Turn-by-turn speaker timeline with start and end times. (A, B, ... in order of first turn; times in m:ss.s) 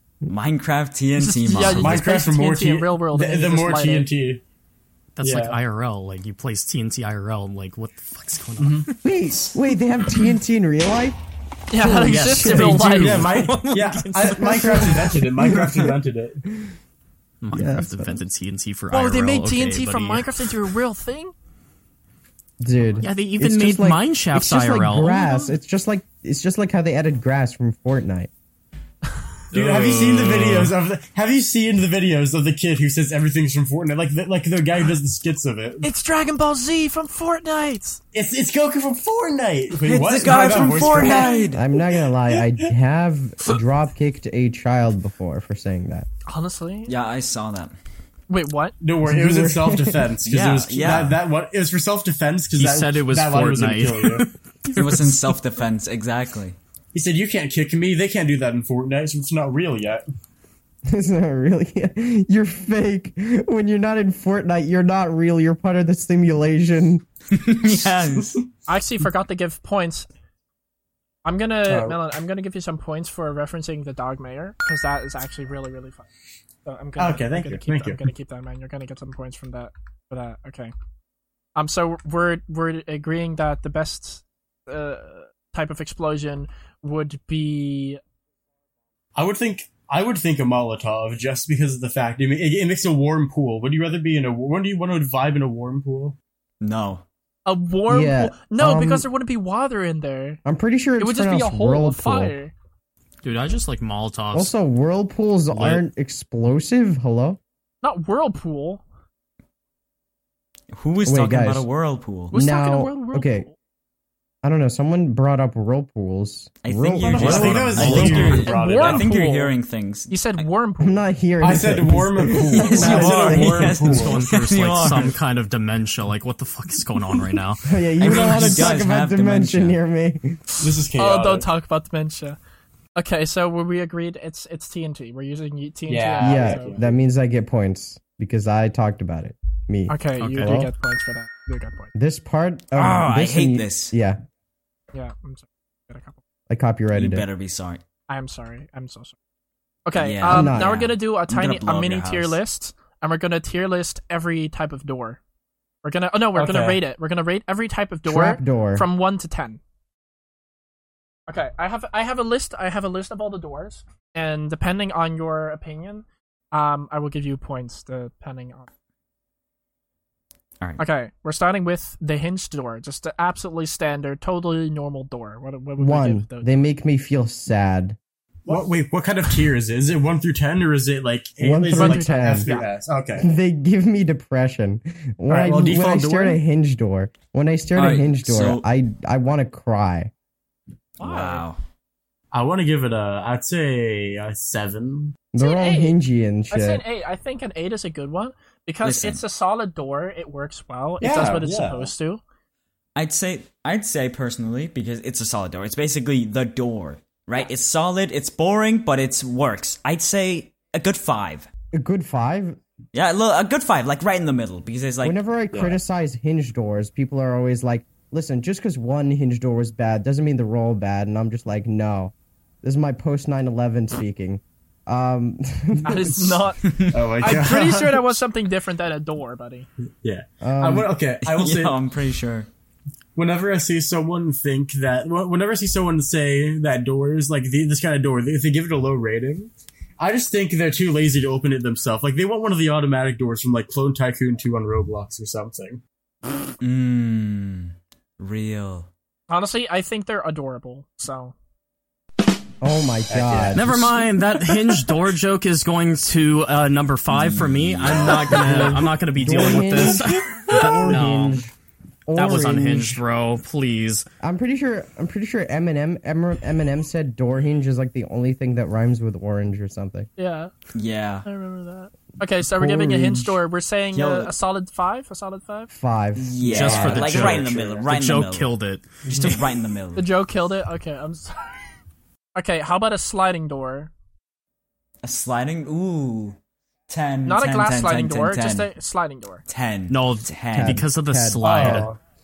0:00.3-0:02.1 A
0:01.2-0:04.1 B
0:01.6-0:04.4 C
0:05.2-0:08.9 D
0:05.2-0:05.6 C
0:08.6-0:08.9 C
0:09.0-0:11.2 E
0:11.7-0:13.3 B
0:11.8-0:12.9 E
0:11.9-0:14.9 D
0:12.9-0:16.5 C
0:14.4-0:15.9 E
0:17.4-0:20.6 D
0:17.5-0:18.2 E
0:18.9-0:21.3 B
0:22.6-0:28.3 E
0:23.0-0:25.5 D
0:29.5-0:30.7 D
0:29.5-0:35.9 C
0:35.8-0:38.0 B
0:38.1-0:41.8 C
0:39.8-0:41.6 A
0:40.4-0:41.5 B
0:41.5-0:46.1 E
0:42.3-0:42.7 C
0:46.3-0:46.9 B
0:46.9-0:47.8 A
0:48.3-0:48.8 B
0:48.8-0:54.2 C
0:49.0-0:50.1 E
0:50.3-0:51.2 A
0:52.6-0:55.1 D
0:54.7-0:56.6 A
0:56.9-1:00.0 C
1:00.9-1:07.0 E
1:07.3-1:08.4 A
1:08.2-1:08.4 C
1:08.7-1:10.1 B
1:11.2-1:16.1 B
1:11.7-1:12.0 C
1:16.6-1:20.7 B
1:17.0-1:18.0 C
1:21.6-1:28.0 B
1:29.2-1:36.2 C
1:36.6-1:37.0 A
1:37.5-1:40.4 B
1:37.9-1:39.1 E
1:40.4-1:42.3 E
1:41.0-1:42.5 B
1:43.2-1:44.5 D
1:44.3-1:47.4 E
1:45.5-1:45.8 D
1:47.8-1:48.8 B
1:50.7-1:52.3 A
1:51.0-1:51.7 E
1:52.3-1:53.5 E
1:52.3-1:53.5 B
1:54.4-1:57.6 E
1:56.6-2:00.4 A
1:57.0-1:59.1 C
1:57.1-1:58.5 D
1:58.2-1:59.5 B
2:00.1-2:01.1 B
2:00.8-2:03.8 E
2:01.4-2:04.2 C
2:02.5-2:05.2 A
2:03.9-2:07.7 D
2:07.6-2:10.4 E
2:08.0-2:09.8 A
2:10.6-2:11.5 C
2:10.9-2:12.4 B
2:13.0-2:16.8 B
2:15.9-2:17.0 C
2:16.2-2:20.7 E
2:19.9-2:21.9 B
2:20.2-2:20.6 D
2:22.0-2:24.2 E
2:22.7-2:23.9 A
2:24.9-2:26.2 B
2:26.5-2:27.2 E
2:26.9-2:27.8 A
2:28.1-2:29.2 B
2:29.9-2:35.2 B
2:30.0-2:32.4 A
2:30.2-2:30.8 E
2:35.8-2:39.6 B
2:36.4-2:36.8 C
2:38.1-2:38.9 E
2:41.3-2:48.7 B
2:50.8-2:56.6 B
2:55.8-2:58.0 E
2:58.5-3:03.3 C
3:01.4-3:02.5 E
3:01.8-3:02.7 B
3:03.2-3:10.1 E
3:05.3-3:06.4 C
3:07.8-3:08.6 A
3:11.0-3:11.6 A
3:11.0-3:11.4 B
3:12.3-3:15.2 C
3:15.3-3:16.8 E
3:15.4-3:16.0 B
3:16.5-3:22.2 B
3:18.8-3:19.2 A
3:21.0-3:21.9 C
3:23.0-3:31.5 A
3:31.7-3:32.6 E
3:32.9-3:35.2 A
3:35.0-3:46.4 E
3:35.5-3:35.8 C
3:45.8-3:46.6 B
3:46.6-3:47.1 A
3:46.9-3:48.1 C
3:47.2-3:49.7 B
3:50.0-3:51.8 C
3:50.4-3:50.9 E
3:51.2-3:52.5 A
3:53.2-4:05.8 C
4:06.6-4:08.9 A
4:09.3-4:11.4 B
4:12.6-4:13.9 E
4:13.1-4:13.6 C
4:13.5-4:21.4 D
4:17.1-4:18.7 A
4:18.3-4:21.5 E
4:19.4-4:20.0 C
4:22.1-4:23.0 E
4:22.2-4:24.1 D
4:24.2-4:30.1 E
4:30.2-4:30.5 B
4:30.8-4:31.2 A
4:31.2-4:35.7 B
4:32.5-4:33.4 E
4:33.9-4:34.3 A
4:35.7-4:37.1 E
4:36.2-4:38.5 A
4:36.4-4:37.9 C
4:36.5-4:39.4 D
4:39.1-4:40.1 A
4:40.0-4:41.8 B
4:42.4-4:43.9 B
4:45.0-4:46.4 A
4:46.9-4:48.7 A
4:47.2-4:49.4 B
4:49.5-4:50.8 A
4:49.9-4:51.9 D
4:50.5-4:51.9 E
4:51.4-4:52.0 C